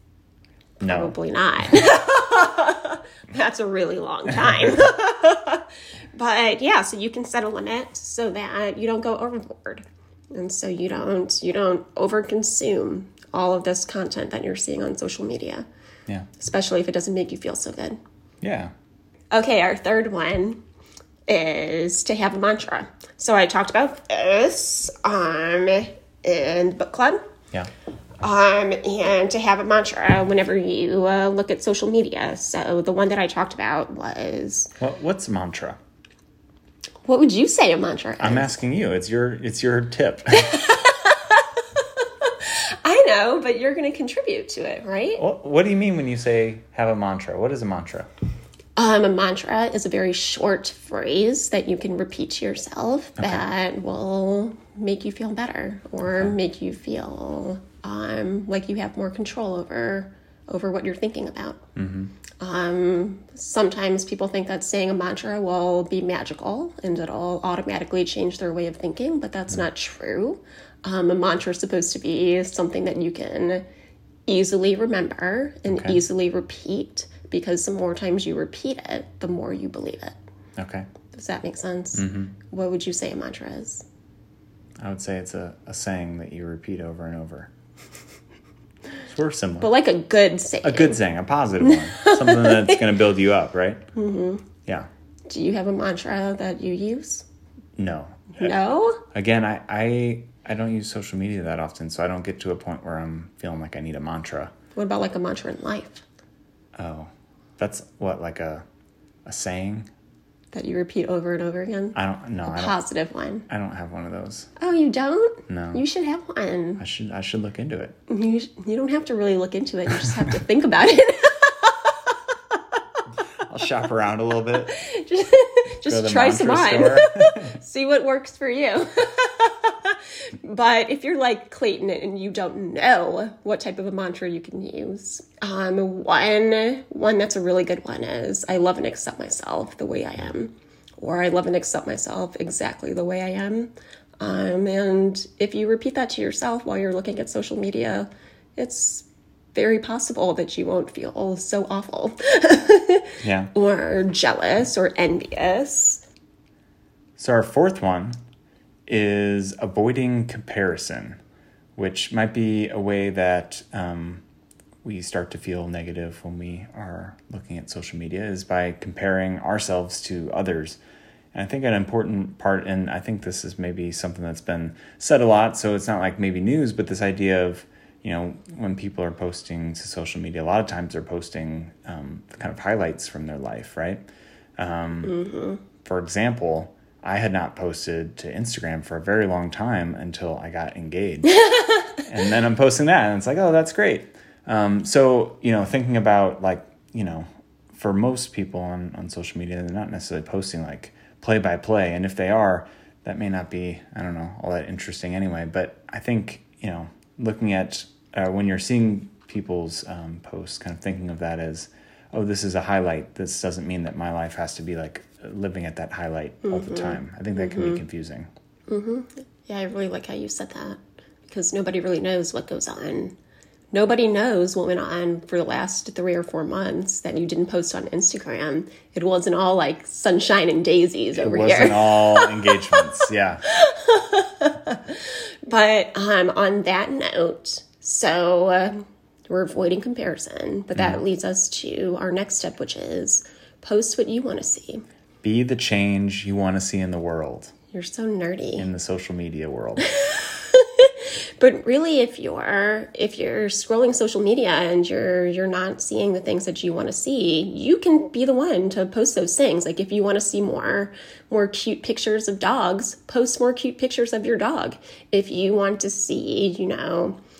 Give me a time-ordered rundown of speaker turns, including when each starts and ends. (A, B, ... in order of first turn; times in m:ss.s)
0:00.8-0:15.6 A
0:00.8-0:01.1 B
0:16.4-0:18.0 A
0:18.4-0:18.7 B
0:19.3-0:20.6 A
0:21.3-0:27.2 A
0:28.2-0:34.7 A
0:34.8-0:35.8 B
0:37.0-0:38.6 A
0:38.2-0:40.6 B
0:40.3-0:45.2 A
0:45.2-0:48.1 B
0:48.8-1:01.6 A
0:53.2-0:53.4 B
0:56.1-0:56.4 B
1:01.8-1:02.1 B
1:02.4-1:13.6 A
1:14.3-1:20.2 A
1:15.7-1:16.0 B
1:20.6-1:20.9 B
1:21.1-1:23.8 A
1:21.9-1:22.3 B
1:24.8-1:27.5 B
1:29.0-1:29.7 B
1:29.6-1:31.0 A
1:30.6-1:33.8 B
1:31.6-1:32.8 A
1:33.9-1:34.4 A
1:35.3-1:37.2 A
1:37.8-1:38.6 B
1:38.3-1:39.0 A
1:39.1-1:44.5 B
1:44.7-1:46.0 A
1:46.7-1:48.6 B
1:49.2-1:49.9 B
1:50.5-1:53.5 A
1:51.9-1:52.8 B
1:53.5-1:54.5 B
1:54.6-1:56.8 A
1:55.5-1:55.8 B
1:56.8-1:58.0 B
1:58.1-2:02.2 A
2:03.5-2:04.8 B
2:04.7-2:36.0 A
2:05.8-2:07.5 B
2:33.2-2:33.5 B
2:37.2-2:38.2 B
2:38.9-2:41.2 B
2:41.8-2:44.2 B
2:44.8-2:50.8 B
2:51.3-3:04.0 B
3:04.6-3:05.2 B
3:05.0-3:05.6 A
3:05.8-3:11.4 B
3:11.3-3:11.9 A
3:12.0-3:38.3 B
3:36.4-3:37.8 A
3:38.7-3:43.1 A
3:43.7-3:53.0 A
3:51.1-3:53.4 B
3:53.5-4:04.8 A
4:00.8-4:01.0 B
4:05.2-4:07.5 B
4:07.7-4:08.7 A
4:08.6-4:09.8 B
4:09.8-4:27.2 A